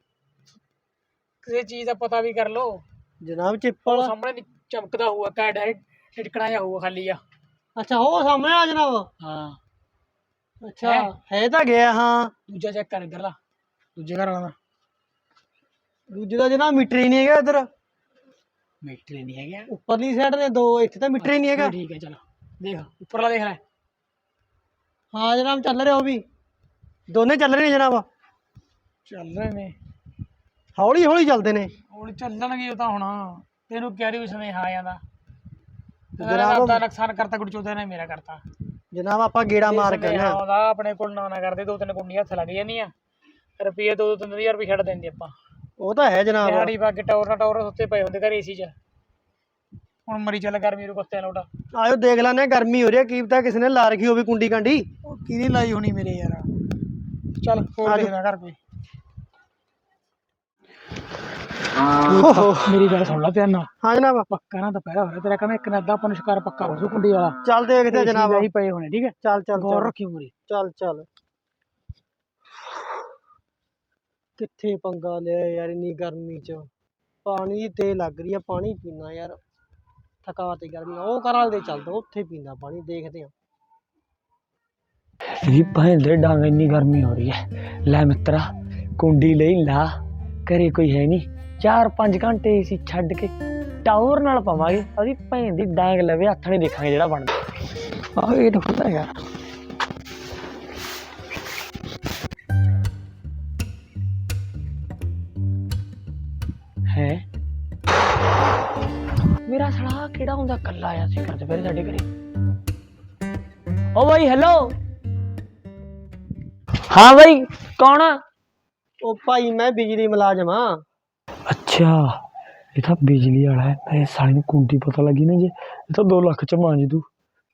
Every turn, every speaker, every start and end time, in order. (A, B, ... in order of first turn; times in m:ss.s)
0:01.4-0:02.8 A
0:03.2-0:04.1 B
0:03.8-0:07.2 A
0:07.8-0:09.1 B
0:09.2-0:09.6 A
0:10.6-0:12.3 B
0:10.8-0:11.1 A
0:12.5-0:13.4 A
0:14.0-0:14.5 A
0:16.1-0:17.7 B
0:18.8-0:19.7 A
0:19.7-0:21.7 B
0:21.2-0:23.6 A
0:25.1-0:26.2 B
0:27.1-0:28.0 B
0:29.0-0:29.7 A
0:30.8-0:31.7 B
0:31.9-0:35.0 A
0:36.2-0:36.8 B
0:36.2-0:38.4 A
0:38.9-0:40.4 B
0:39.6-0:42.9 A
0:43.6-0:45.3 A
0:45.8-0:46.7 B
0:46.4-0:48.7 A
0:50.1-0:51.4 A
0:51.7-0:54.8 B
0:55.0-0:56.5 A
0:57.4-0:58.6 A
0:57.8-0:58.1 B
1:02.0-1:03.7 A
1:02.1-1:02.7 B
1:03.8-1:04.3 B
1:04.3-1:07.4 A
1:07.4-1:08.5 B
1:07.9-1:10.3 A
1:09.2-1:09.9 B
1:10.5-1:11.0 B
1:14.4-1:16.7 B
1:17.2-1:19.4 B
1:20.2-1:23.3 B
1:25.4-1:29.9 C
1:30.4-1:33.3 C
1:33.8-1:37.4 C
1:38.1-1:39.2 C
1:46.9-1:47.2 C
1:49.4-1:52.0 C
1:53.9-1:54.7 C
1:56.9-1:58.2 C
1:59.0-2:00.8 B
2:01.5-2:02.1 C
2:02.8-2:07.0 C